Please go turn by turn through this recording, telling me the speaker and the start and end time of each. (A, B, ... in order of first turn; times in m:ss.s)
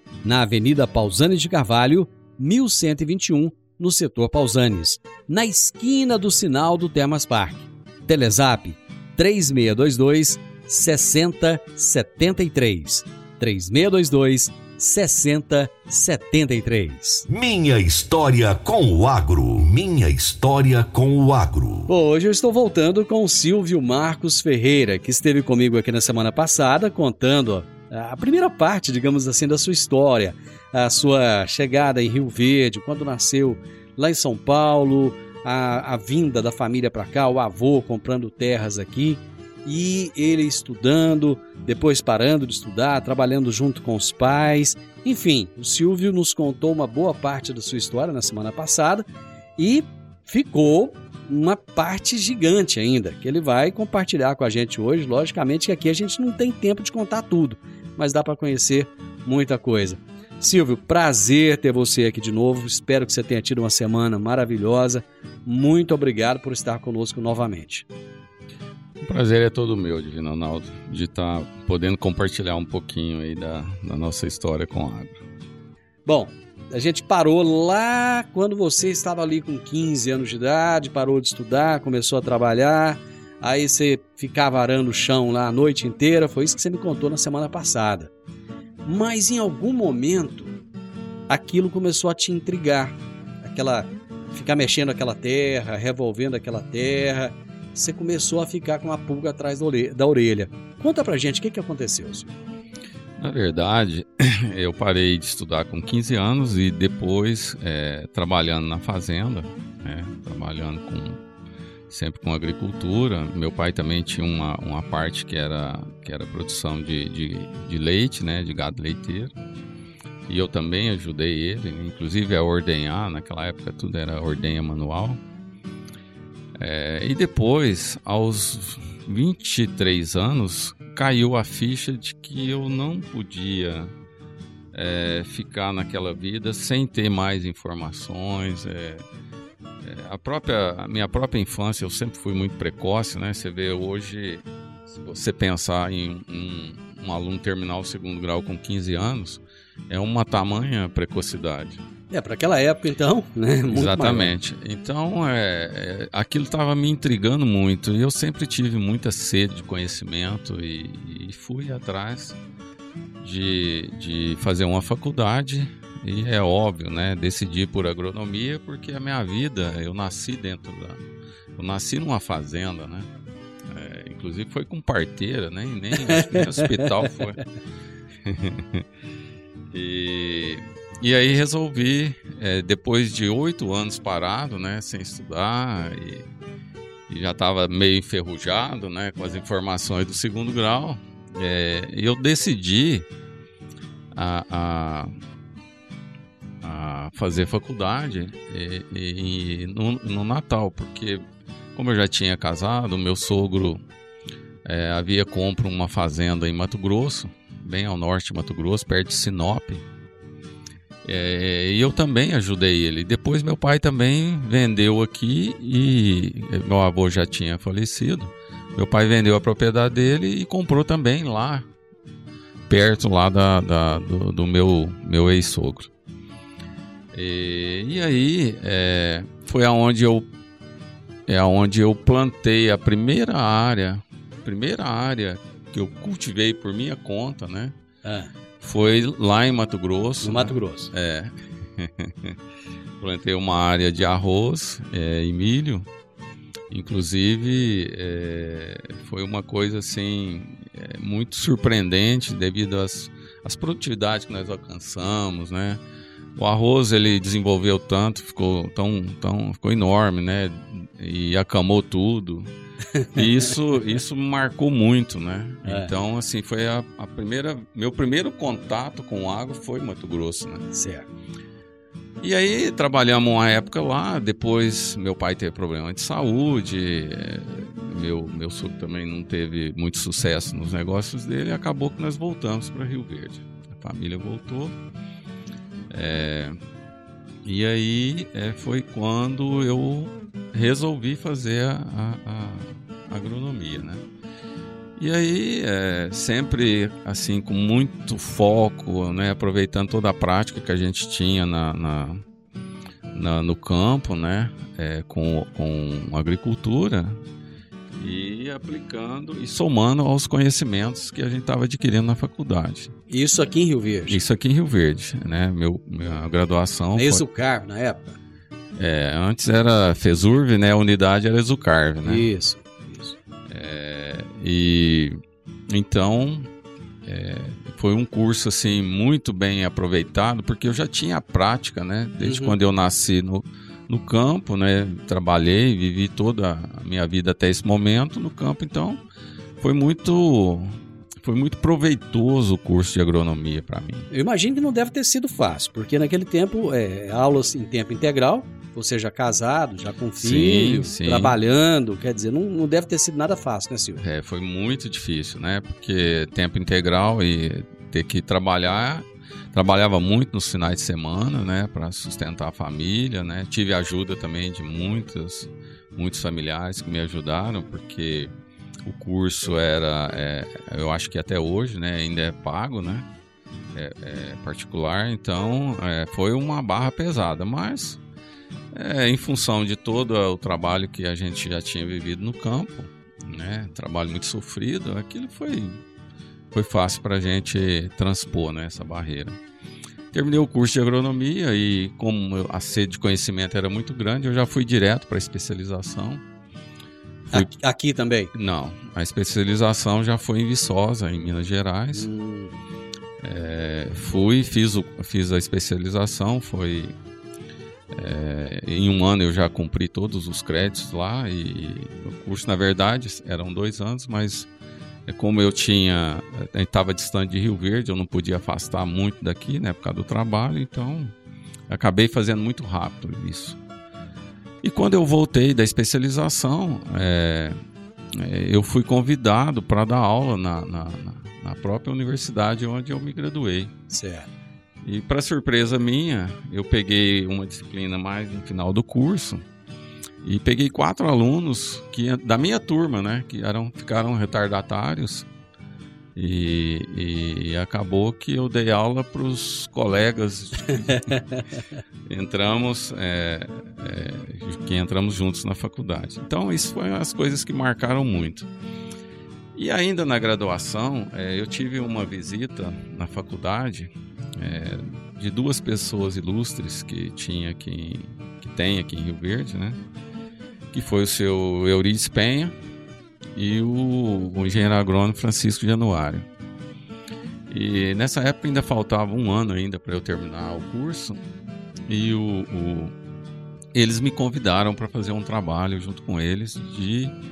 0:00.2-0:17.2 A
0:17.3-0:21.9 B
0:21.9-0:49.0 A
0:49.6-1:07.8 A
1:09.0-1:15.2 C
1:16.0-1:28.1 A
1:28.8-1:30.5 A
1:31.3-1:42.3 A
1:43.2-1:51.2 C
1:51.9-1:59.3 C
2:00.3-2:05.2 C
2:06.6-2:13.9 C
2:14.7-2:19.0 C
2:19.8-2:31.8 C
2:32.1-2:34.3 A
2:33.7-2:42.4 C
2:43.2-2:51.0 C
2:51.6-2:53.1 C
2:53.7-2:57.4 C
2:56.1-2:57.0 A
2:58.2-2:58.8 C
2:59.7-3:06.2 C
3:07.1-3:13.0 C
3:14.1-3:15.1 C
3:16.6-3:21.2 C
3:21.7-3:23.8 C
3:24.6-3:29.8 C
3:31.0-3:41.6 C
3:42.7-3:45.9 C
3:47.1-3:50.3 C
3:51.3-3:57.7 C
3:58.0-3:58.3 A
3:58.6-4:02.3 C
4:00.2-4:00.9 A
4:03.0-4:05.9 C
4:06.7-4:15.8 C
4:16.4-4:22.5 C
4:22.9-4:23.2 A
4:23.1-4:30.7 C
4:25.6-4:25.9 A
4:30.7-4:31.0 A
4:32.2-4:44.7 C
4:45.9-4:46.5 C
4:47.4-4:54.0 C
4:55.0-5:02.2 C
5:03.1-5:07.2 C
5:08.0-5:12.9 C
5:13.1-5:14.2 A
5:14.1-5:17.2 C
5:17.0-5:18.2 A
5:18.8-5:22.3 C
5:22.0-5:23.1 A
5:23.5-5:26.5 C
5:27.0-5:39.0 C
5:32.2-5:32.6 A
5:39.6-5:44.1 C
5:44.1-5:54.0 A
5:50.2-5:51.3 C
5:54.0-6:08.3 C
6:08.8-6:13.0 C
6:13.7-6:18.0 C
6:18.7-6:25.8 C
6:26.5-6:29.4 C
6:30.1-6:36.2 C
6:37.3-6:38.3 A
6:38.3-6:42.1 C
6:41.9-6:42.6 A
6:43.2-6:46.9 C
6:47.9-6:54.5 C
6:55.1-7:01.1 C
7:01.7-7:03.6 C
7:04.6-7:07.6 C
7:08.1-7:13.7 C
7:13.9-7:14.3 A
7:14.8-7:19.4 C
7:20.2-7:25.2 C
7:26.2-7:31.2 C
7:30.9-7:31.4 A
7:32.1-7:38.5 C
7:39.5-7:49.8 C
7:50.7-7:52.5 C
7:53.4-7:56.2 C
7:57.5-8:01.2 C
8:01.9-8:02.9 C
8:03.7-8:07.1 C